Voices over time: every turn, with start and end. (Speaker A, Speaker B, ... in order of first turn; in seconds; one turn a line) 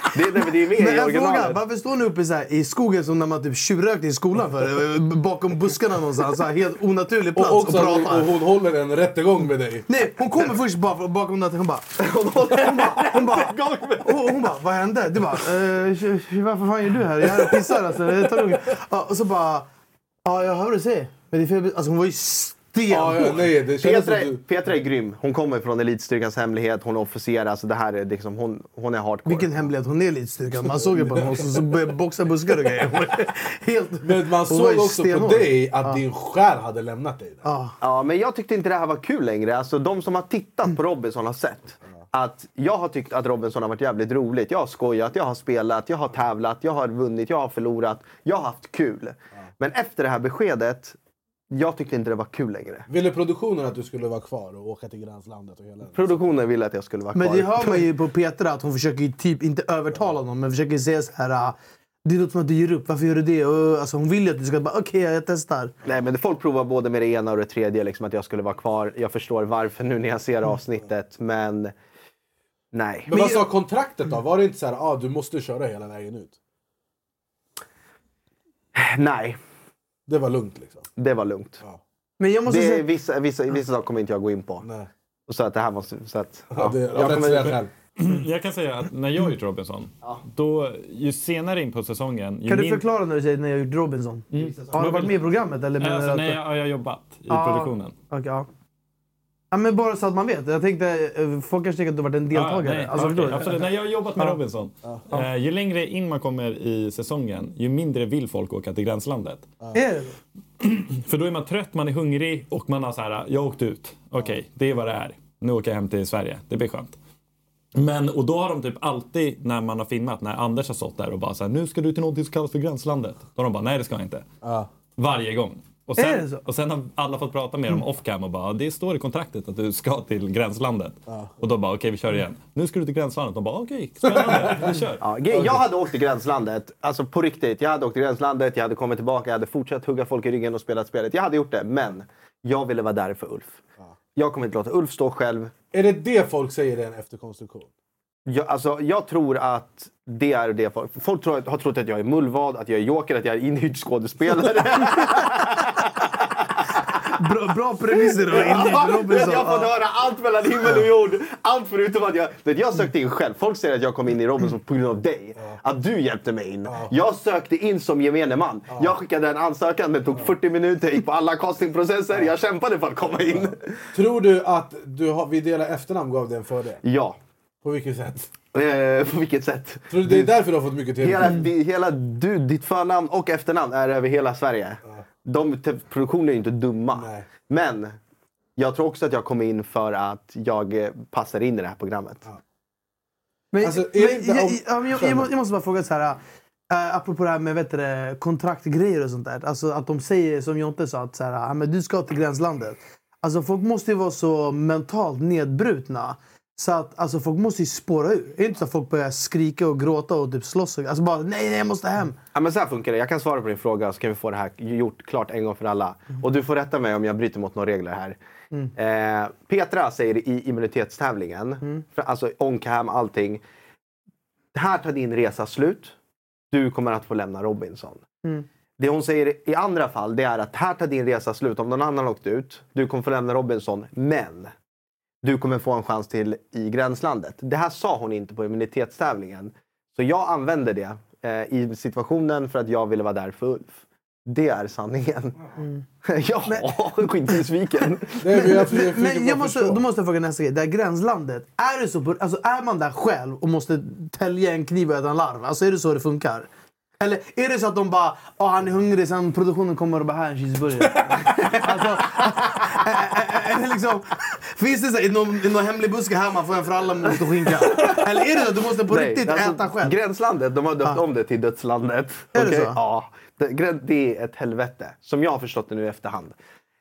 Speaker A: 0.1-1.6
Speaker B: 0.7-8.3
Speaker C: 7.3-9.8
Speaker B: 9.9-11.9
Speaker A: 12.0-14.3
Speaker B: 12.4-19.7
Speaker B: 20.2-23.5
Speaker C: 22.9-24.4
Speaker A: 23.8-29.6
Speaker B: 29.2-36.0
Speaker C: 30.8-31.4
Speaker C: 34.0-37.4
Speaker B: 37.4-37.8
Speaker A: 37.8-51.0
Speaker A: 51.5-52.9
Speaker C: 52.9-56.2
Speaker A: 55.9-57.9
Speaker B: 57.1-65.7
Speaker A: 65.8-71.7
Speaker A: 72.7-73.1
Speaker C: 73.1-76.3
Speaker B: 73.1-73.5
Speaker A: 78.7-79.4
Speaker C: 80.1-80.9
Speaker A: 81.0-81.6
Speaker B: 82.2-82.8
Speaker A: 82.5-84.7
Speaker C: 84.6-84.9
Speaker A: 85.3-87.6
Speaker C: 86.5-87.7
Speaker D: 88.0-92.8
Speaker B: 92.5-96.4
Speaker D: 94.3-95.2
Speaker D: 95.8-97.9
Speaker B: 97.3-98.5
Speaker B: 99.5-104.4
Speaker D: 102.3-109.5
Speaker B: 109.7-110.2
Speaker D: 110.6-117.0
Speaker D: 117.7-124.3
Speaker C: 124.4-124.7
Speaker D: 125.0-135.0
Speaker B: 126.0-126.4
Speaker A: 135.0-143.6
Speaker A: 144.2-145.5
Speaker C: 145.7-147.7
Speaker A: 148.3-156.2
Speaker B: 157.1-159.7
Speaker A: 158.3-173.8
Speaker C: 173.9-176.8
Speaker A: 176.8-177.2
Speaker C: 177.6-178.3
Speaker A: 178.5-180.3
Speaker C: 179.9-181.4
Speaker A: 181.0-188.0
Speaker C: 186.9-187.3
Speaker A: 188.6-192.2
Speaker B: 193.5-212.2
Speaker C: 193.6-195.3
Speaker A: 212.3-218.2
Speaker A: 218.8-223.4
Speaker A: 224.5-225.9
Speaker A: 226.5-228.0
Speaker A: 228.8-234.5
Speaker A: 235.2-245.3
Speaker A: 246.0-248.5
Speaker C: 248.2-249.8
Speaker B: 248.3-256.5
Speaker B: 257.0-269.9
Speaker A: 268.9-276.4
Speaker B: 272.3-272.8